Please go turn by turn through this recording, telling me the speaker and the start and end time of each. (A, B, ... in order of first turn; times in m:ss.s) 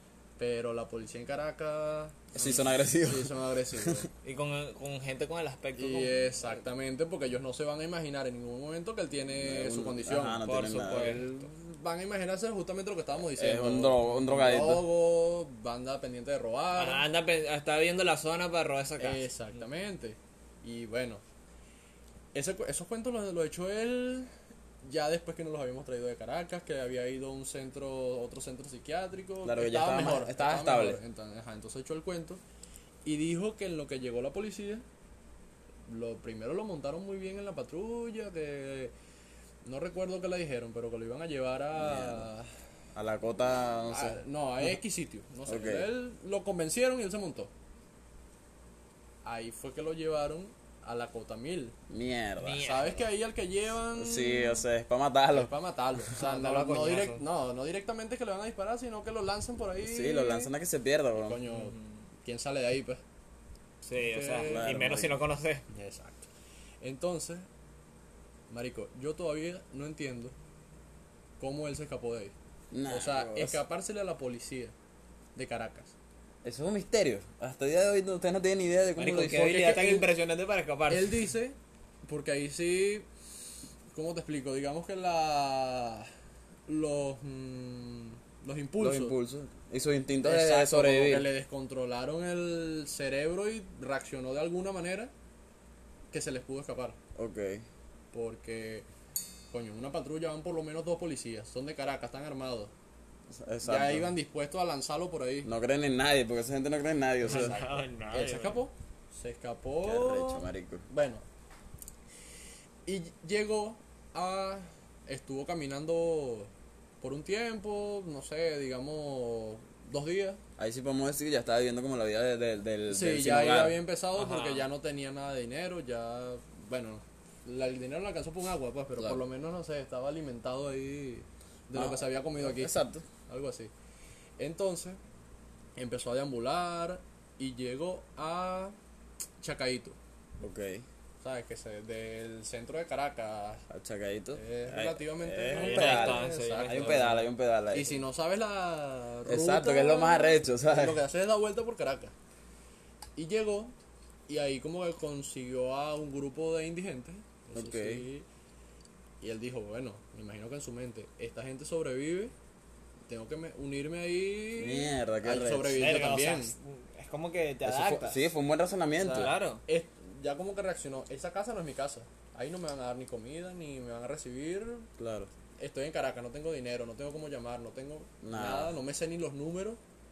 0:00.4-0:04.1 A
0:02.3-0:04.0 B
0:04.2-0:06.1 C
0:05.7-0:17.0 A
0:09.4-0:11.2 B
0:10.4-0:11.4 C
0:13.4-0:14.9 B
0:16.8-0:19.2 C
0:19.0-0:21.2 A
0:22.3-0:24.3 A
0:24.8-0:32.4 A
0:29.4-0:31.0 B
0:33.0-0:34.8 A
0:35.9-0:38.9 A
0:39.6-0:42.5 A
0:41.7-0:42.3 B
0:42.9-0:44.7 B
0:43.9-0:47.5 A
0:45.4-0:45.9 B
0:49.2-0:51.7 A
0:51.9-0:52.6 B
0:52.4-0:53.0 C
0:52.6-0:54.6 A
0:53.9-0:55.5 B
0:55.3-1:00.5 A
0:56.1-0:57.2 C
0:59.8-1:01.4 B
1:01.2-1:03.0 A
1:01.5-1:01.9 C
1:03.8-1:05.6 C
1:04.0-1:04.7 A
1:04.4-1:05.2 B
1:05.7-1:06.3 A
1:06.8-1:07.5 A
1:08.5-1:10.3 A
1:11.4-1:12.3 A
1:12.7-1:13.6 B
1:12.9-1:14.7 A
1:15.3-1:15.9 A
1:16.4-1:19.5 B
1:19.0-1:21.2 C
1:19.2-1:20.1 A
1:20.9-1:23.1 A
1:23.9-1:26.1 A
1:26.7-1:29.1 A
1:28.8-1:31.3 B
1:30.2-1:35.1 A
1:36.1-1:37.0 A
1:37.2-1:37.6 B
1:38.1-1:38.8 A
1:39.5-1:42.7 A
1:43.3-1:44.1 B
1:43.6-1:45.5 A
1:45.4-1:47.5 B
1:47.2-1:48.6 C
1:47.2-1:51.2 A
1:49.8-1:50.8 B
1:52.8-2:00.4 A
2:00.6-2:03.8 B
2:02.9-2:12.8 A
2:04.1-2:04.7 C
2:11.8-2:13.0 B
2:13.3-2:13.7 A
2:14.4-2:15.0 A
2:15.8-2:18.7 A
2:19.4-2:20.0 A
2:20.4-2:20.8 B
2:21.2-2:23.6 A
2:23.7-2:27.9 B
2:24.3-2:32.1 A
2:25.5-2:27.2 C
2:29.3-2:31.0 B
2:33.2-2:33.7 A
2:34.3-2:38.2 A
2:37.5-2:38.0 B
2:39.2-2:42.3 A
2:43.1-2:46.5 A
2:44.6-2:45.9 B
2:45.8-2:48.2 C
2:47.6-2:49.3 B
2:49.0-2:49.6 C
2:49.0-2:54.9 A
2:55.0-2:55.3 B
2:55.6-2:59.8 A
2:58.2-2:58.7 B